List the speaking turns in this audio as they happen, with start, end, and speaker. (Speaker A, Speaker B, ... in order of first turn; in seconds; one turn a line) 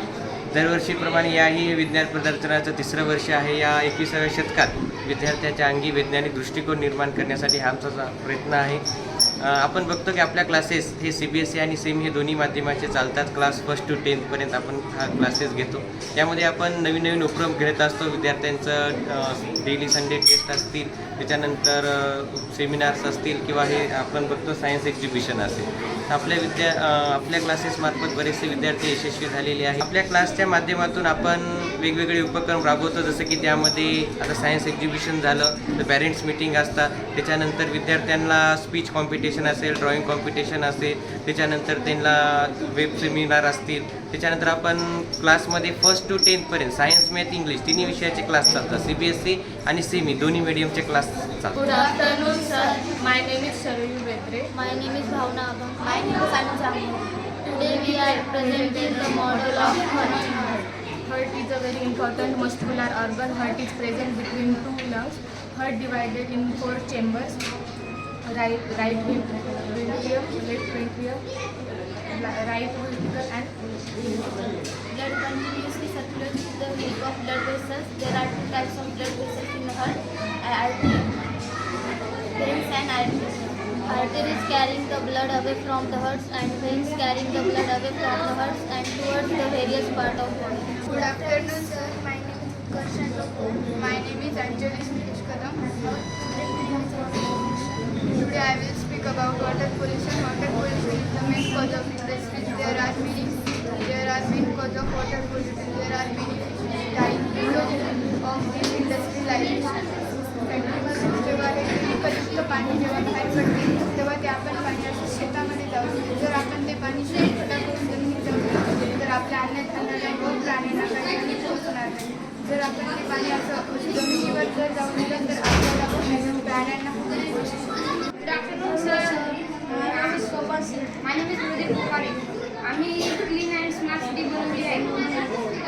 Speaker A: 0.5-8.8
Speaker A: 9.4-51.6
Speaker B: 51.5-54.5
Speaker C: 51.7-52.9
Speaker C: 54.5-60.6
Speaker B: 57.5-67.4
Speaker B: 68.3-71.2
Speaker B: 72.1-73.5
Speaker C: 74.9-81.1
Speaker C: 82.3-91.0
Speaker D: 90.8-109.8
Speaker D: 110.4-127.6
Speaker E: 128.2-135.4